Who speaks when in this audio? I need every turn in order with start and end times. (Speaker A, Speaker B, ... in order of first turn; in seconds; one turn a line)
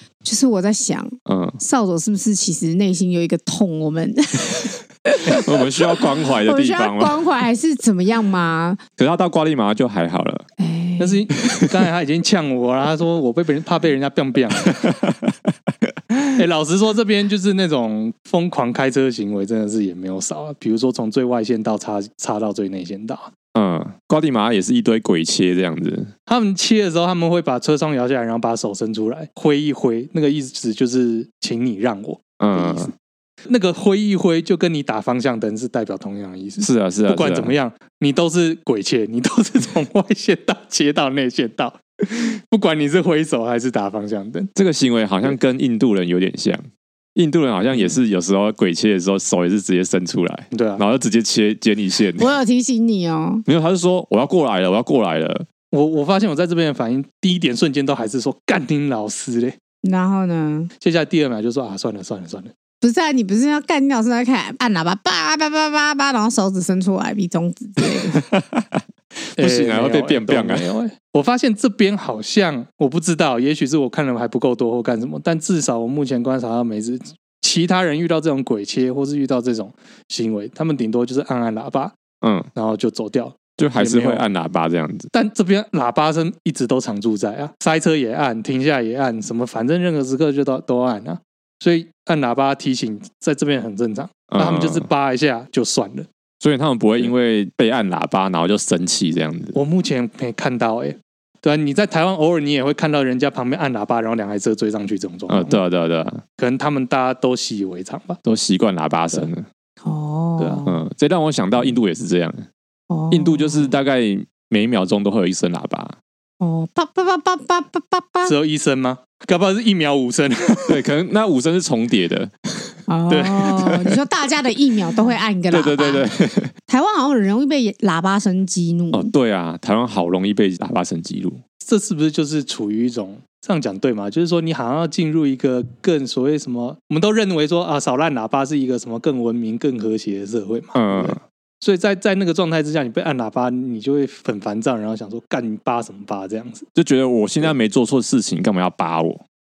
Speaker A: 0.2-8.8
Speaker B: 1.3-1.6
Speaker B: 5.3-7.2
Speaker B: 9.0-10.4
Speaker A: 10.6-11.2
Speaker C: 11.0-14.8
Speaker B: 14.7-15.3
Speaker C: 16.4-23.3
Speaker B: 23.5-26.1
Speaker C: 26.3-32.9
Speaker B: 32.4-32.9
Speaker C: 33.5-44.5
Speaker B: 36.6-37.5
Speaker B: 44.5-46.6
Speaker B: 47.1-52.3
Speaker C: 50.5-50.8
Speaker A: 52.2-53.4
Speaker B: 53.5-55.5
Speaker C: 55.7-59.5
Speaker A: 59.8-60.7
Speaker C: 60.8-62.5
Speaker A: 62.8-68.2
Speaker B: 68.1-68.8
Speaker B: 69.4-70.7
Speaker C: 69.4-82.0
Speaker B: 82.2-82.5
Speaker C: 82.5-84.2
Speaker B: 83.6-85.1
Speaker C: 85.1-96.1
Speaker B: 94.3-94.8
Speaker B: 96.4-99.5
Speaker C: 99.5-105.6
Speaker B: 105.3-106.2
Speaker C: 106.4-108.2
Speaker B: 108.2-109.5
Speaker A: 109.8-110.8
Speaker C: 110.4-110.6
Speaker B: 110.7-112.5
Speaker A: 112.9-113.7
Speaker B: 113.1-116.0
Speaker A: 116.4-118.3
Speaker C: 118.2-120.8
Speaker B: 120.7-122.8
Speaker A: 122.9-126.1
Speaker C: 123.1-123.7
Speaker B: 123.5-124.0
Speaker B: 125.5-126.5
Speaker A: 126.7-129.1
Speaker B: 128.9-131.4
Speaker C: 131.6-146.7
Speaker B: 140.7-141.2
Speaker B: 146.8-149.2